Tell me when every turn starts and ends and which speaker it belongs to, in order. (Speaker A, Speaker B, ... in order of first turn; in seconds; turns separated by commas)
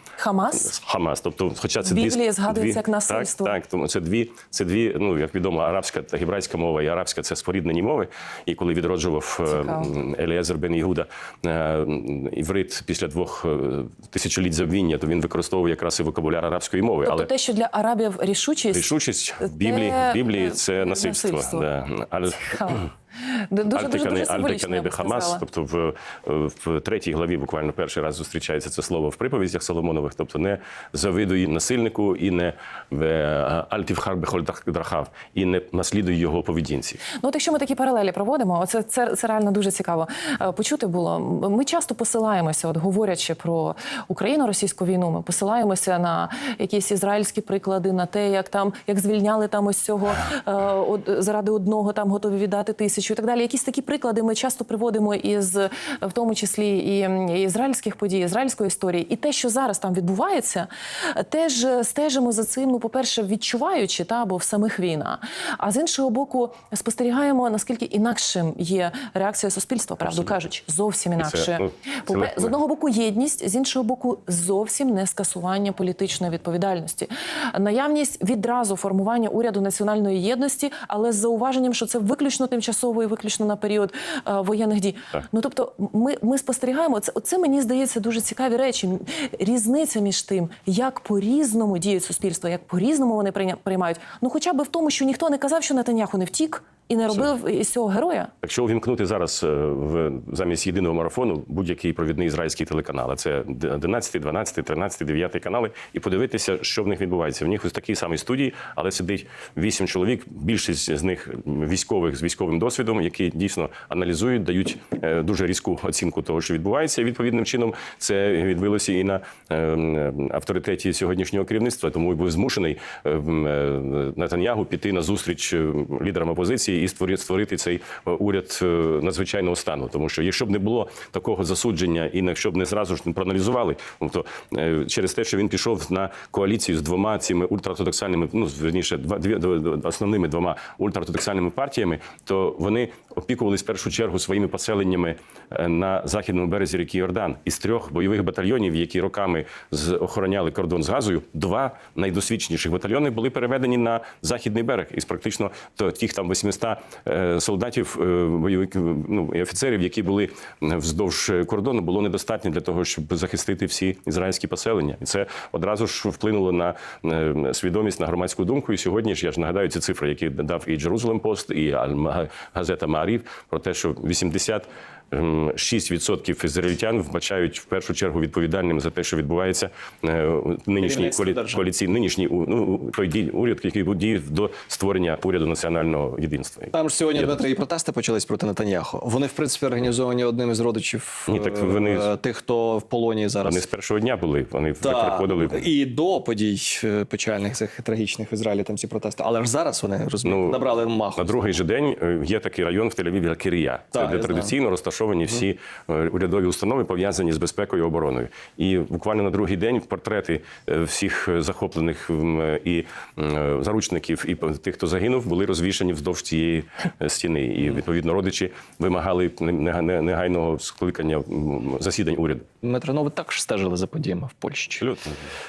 Speaker A: 0.2-0.7, Speaker B: 0.6-17.3, Speaker A: 1.8-3.6, Speaker A: 9.5-9.9, Speaker A: 17.1-21.7, Speaker B: 18.7-22.9, Speaker A: 22.4-25.4, Speaker B: 23.7-37.0, Speaker A: 37.2-98.3, Speaker B: 70.1-70.4, Speaker B: 71.2-72.5, Speaker B: 98.4-187.3, Speaker C: 180.8-181.6, Speaker C: 186.7-193.6, Speaker B: 191.3-192.1, Speaker B: 193.4-195.7, Speaker C: 194.8-201.4, Speaker B: 200.2-200.6, Speaker B: 201.2-222.4, Speaker C: 203.9-204.5, Speaker C: 222.6-224.9, Speaker B: 224.8-225.3